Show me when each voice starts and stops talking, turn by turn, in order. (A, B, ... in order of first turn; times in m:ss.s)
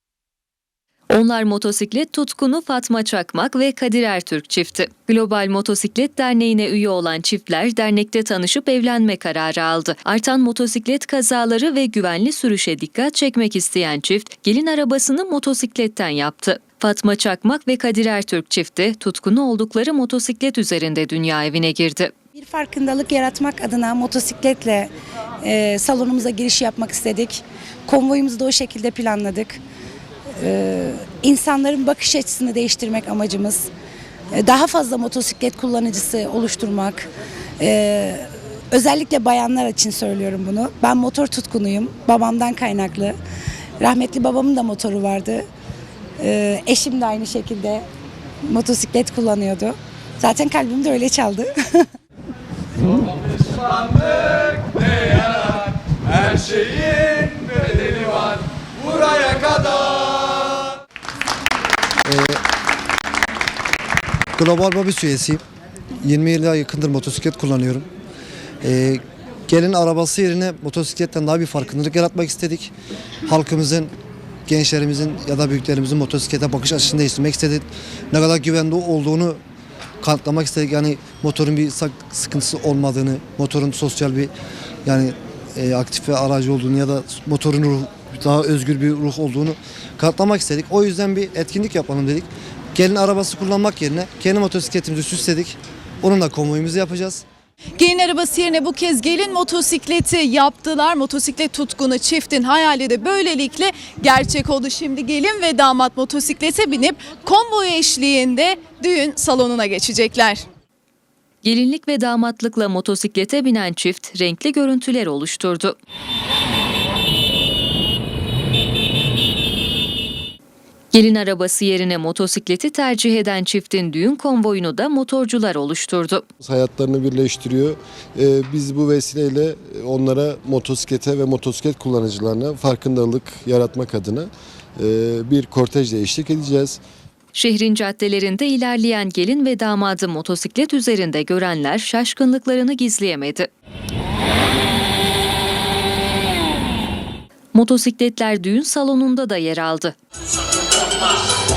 0:01.1-0:22.1 A
0:22.3-0:24.9 B
0:25.4-0:29.6 B
0:30.4-0:33.7 B
0:34.3-0:37.1 B
0:37.6-0:43.2 B
0:43.8-0:45.4 B
0:46.2-0:47.8 B
0:48.4-0:51.9 B
1:02.0-1:02.4 C
1:04.4-1:05.4 C
1:06.0-1:07.9 C
1:08.6-1:12.7 C
1:13.2-1:13.9 C
1:14.5-1:19.4 C
1:20.0-1:24.3 C
1:24.8-1:37.2 C
1:37.8-1:50.4 D
1:51.4-1:55.8 A
2:00.9-2:06.2 A
2:06.4-2:16.8 E
2:17.3-2:23.5 A
2:27.5-2:30.0 A